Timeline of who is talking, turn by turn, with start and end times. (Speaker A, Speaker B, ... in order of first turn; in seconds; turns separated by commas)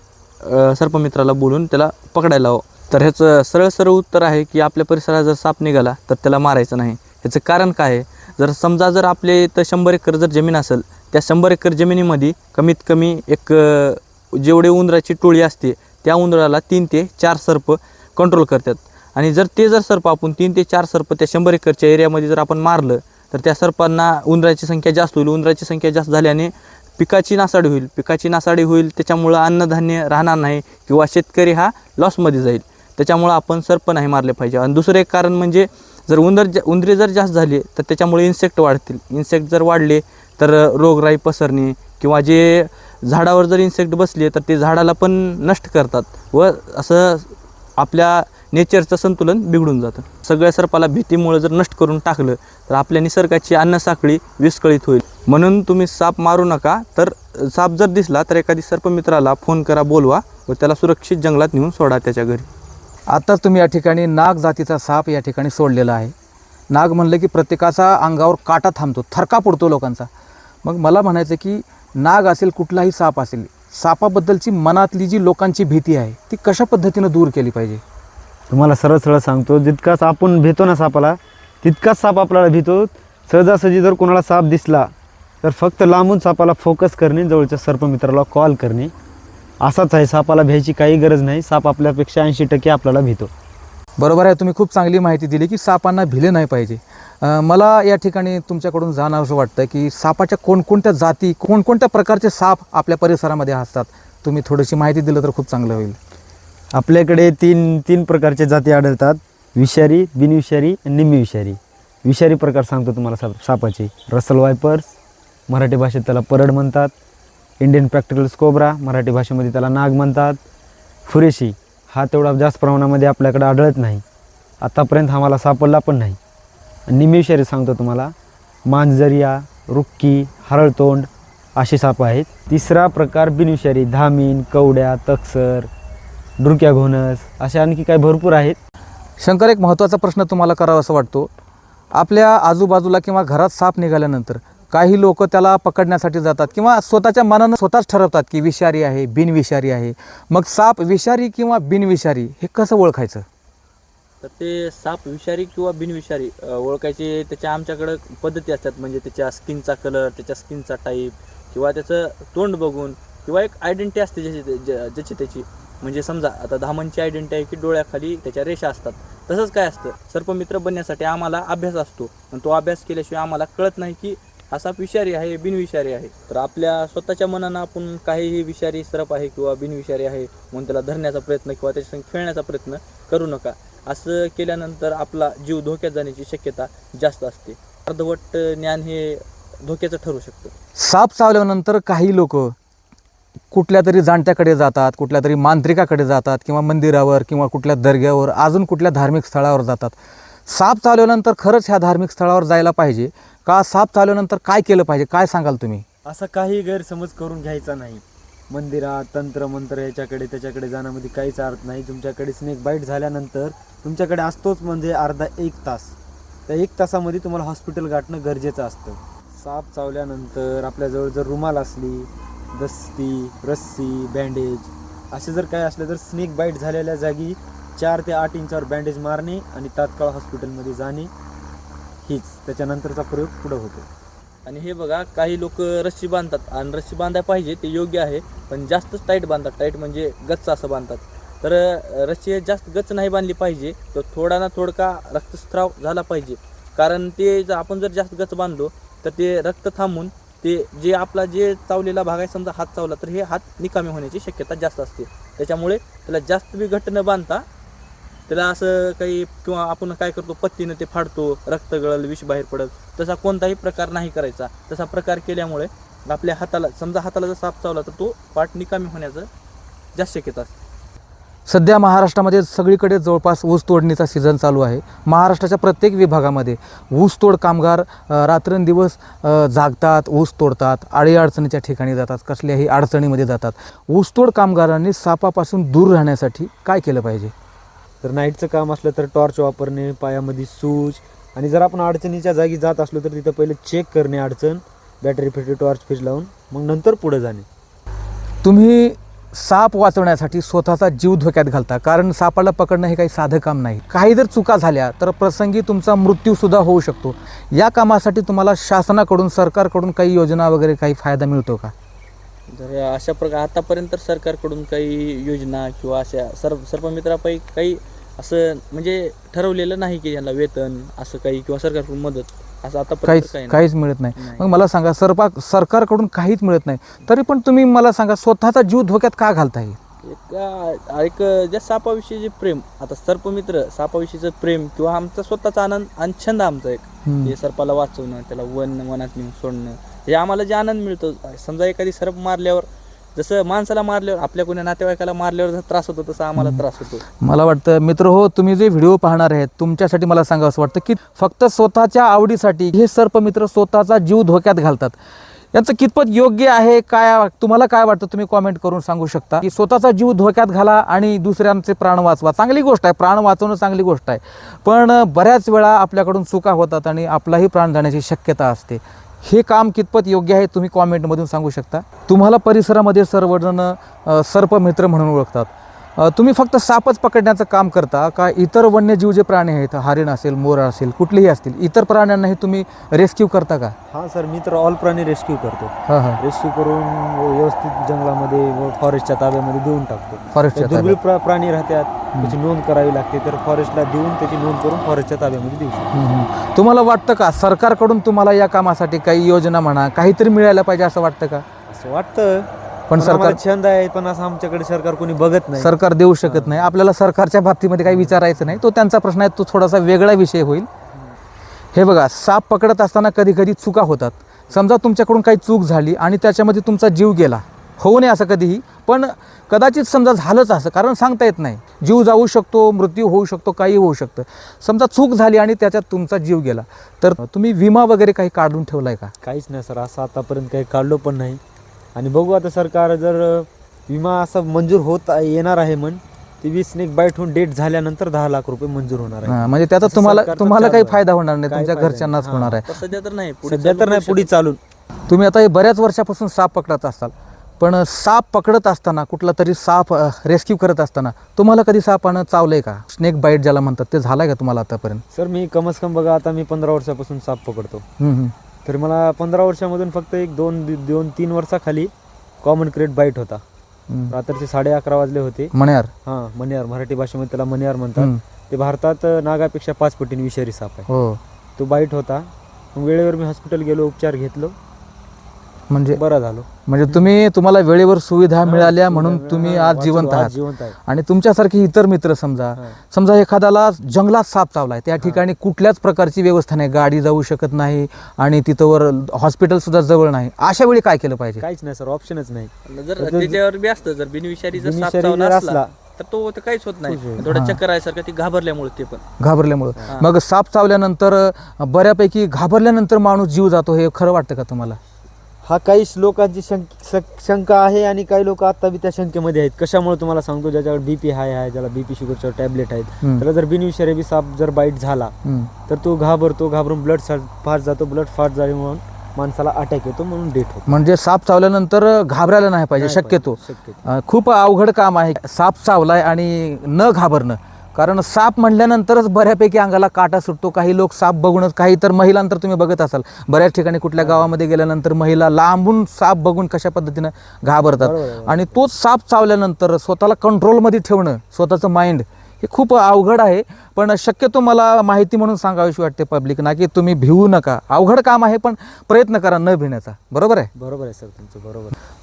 Speaker A: 0.4-62.5, Speaker B: 63.1-66.1, Speaker B: 66.7-70.1, Speaker B: 70.6-77.8, Speaker C: 78.5-84.9, Speaker C: 85.4-88.9, Speaker C: 89.6-93.3, Speaker B: 94.0-106.0, Speaker C: 106.7-115.0, Speaker C: 115.5-116.9, Speaker C: 117.6-120.4, Speaker C: 121.1-124.0, Speaker C: 124.6-126.2, Speaker C: 126.9-128.1, Speaker C: 128.7-135.7, Speaker C: 136.4-138.6, Speaker B: 139.2-141.3, Speaker B: 141.9-153.2, Speaker A: 154.2-190.5, Speaker B: 190.8-192.5, Speaker B: 193.5-199.9, Speaker B: 200.5-205.8, Speaker C: 206.1-216.0, Speaker C: 216.5-231.1, Speaker C: 232.1-233.9, Speaker A: 234.5-257.4, Speaker A: 258.3-269.3, Speaker A: 269.9-270.5, Speaker B: 271.5-287.3, Speaker C: 288.0-297.5, Speaker B: 298.4-311.7, Speaker A: 312.5-323.6, Speaker B: 323.1-329.8, Speaker A: 324.2-324.6, Speaker A: 330.0-347.0, Speaker B: 337.1-337.4, Speaker B: 346.4-346.6, Speaker B: 347.2-354.9, Speaker B: 355.5-383.7, Speaker C: 383.9-396.0, Speaker B: 385.9-386.2, Speaker B: 390.3-391.0, Speaker B: 395.9-401.4, Speaker C: 401.7-406.7, Speaker B: 402.9-403.4, Speaker B: 405.6-410.7, Speaker C: 407.9-408.6, Speaker B: 411.7-429.1, Speaker C: 429.2-431.4, Speaker C: 431.9-442.6, Speaker B: 439.2-442.7, Speaker A: 442.6-444.3, Speaker C: 443.5-444.6, Speaker B: 445.1-455.0, Speaker C: 455.1-457.9, Speaker B: 458.0-458.3, Speaker C: 458.7-463.4, Speaker B: 463.9-464.1, Speaker C: 464.1-465.5, Speaker B: 465.5-465.9, Speaker C: 466.1-470.9, Speaker B: 468.0-468.2, Speaker B: 470.9-471.2, Speaker C: 471.6-474.6, Speaker B: 475.7-476.0, Speaker C: 475.9-477.1, Speaker B: 476.7-491.4, Speaker C: 478.4-480.8, Speaker C: 491.4-493.4, Speaker A: 492.7-499.0, Speaker C: 494.6-495.7, Speaker C: 496.9-497.3, Speaker B: 497.3-497.6, Speaker B: 499.2-504.8, Speaker C: 505.4-515.1, Speaker B: 515.2-515.5, Speaker C: 515.7-520.8, Speaker B: 520.7-550.5, Speaker C: 522.8-523.9, Speaker C: 534.0-534.3, Speaker C: 537.8-538.7, Speaker C: 550.5-551.8